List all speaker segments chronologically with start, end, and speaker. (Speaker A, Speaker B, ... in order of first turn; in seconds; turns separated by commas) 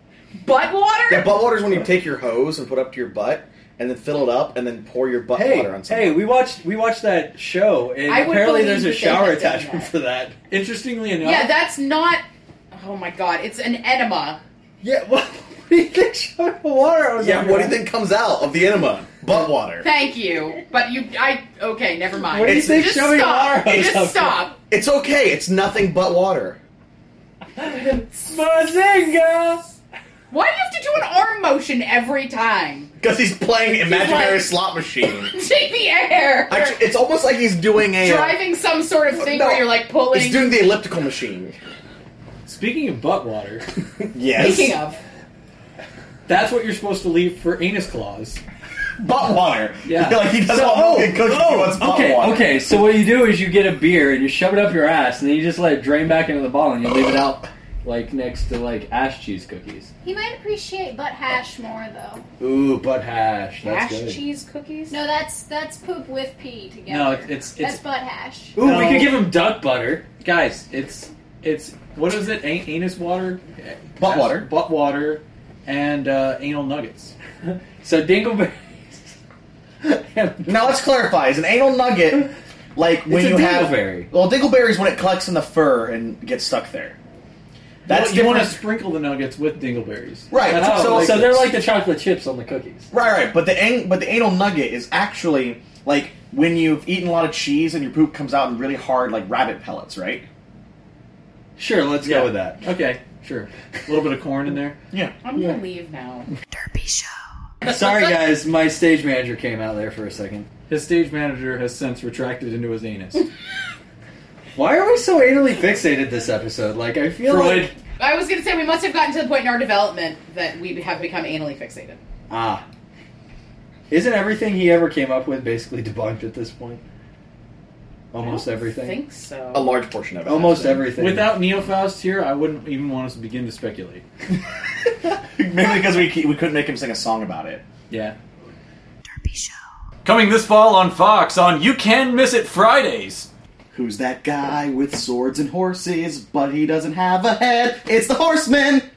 Speaker A: 0.4-1.5, Speaker B: 1.1-6.2, Speaker C: 5.3-10.3, Speaker A: 8.0-9.9, Speaker D: 10.5-11.5, Speaker A: 11.2-14.4, Speaker C: 14.8-17.8, Speaker B: 17.2-19.9, Speaker A: 19.8-24.6, Speaker C: 22.3-24.5, Speaker B: 24.7-26.6, Speaker C: 27.6-29.7, Speaker A: 30.3-32.9, Speaker B: 33.0-35.3, Speaker A: 33.8-34.5, Speaker A: 35.2-36.8, Speaker B: 36.5-38.4, Speaker A: 38.0-40.5, Speaker B: 39.1-41.6, Speaker D: 42.4-43.6, Speaker B: 44.0-44.8, Speaker A: 44.3-45.0, Speaker D: 46.2-48.4, Speaker B: 49.0-52.6, Speaker D: 49.8-52.2, Speaker C: 50.5-59.9, Speaker E: 60.0-62.2, Speaker C: 62.4-64.2, Speaker A: 63.6-65.0, Speaker E: 64.9-68.6, Speaker D: 66.9-67.8, Speaker C: 68.5-70.0, Speaker D: 68.6-69.2, Speaker D: 70.2-77.1, Speaker B: 74.0-74.5, Speaker C: 77.5-78.9, Speaker C: 79.8-80.7, Speaker B: 80.4-87.0, Speaker C: 83.1-84.1, Speaker B: 87.8-88.6, Speaker D: 87.9-91.5, Speaker B: 90.3-91.4, Speaker C: 90.5-92.9, Speaker B: 92.9-100.3, Speaker C: 101.6-102.6, Speaker D: 102.0-104.8, Speaker A: 105.2-106.3, Speaker C: 107.7-110.5, Speaker D: 110.7-113.3, Speaker C: 114.5-117.7, Speaker D: 117.2-117.7, Speaker A: 118.0-122.0, Speaker C: 122.3-122.6, Speaker C: 123.9-126.8, Speaker C: 128.1-129.0, Speaker A: 128.2-129.7, Speaker B: 129.5-130.9, Speaker C: 130.3-131.4, Speaker D: 131.0-134.0, Speaker B: 135.3-137.6, Speaker D: 137.9-138.2, Speaker D: 140.0-143.3, Speaker B: 143.7-148.9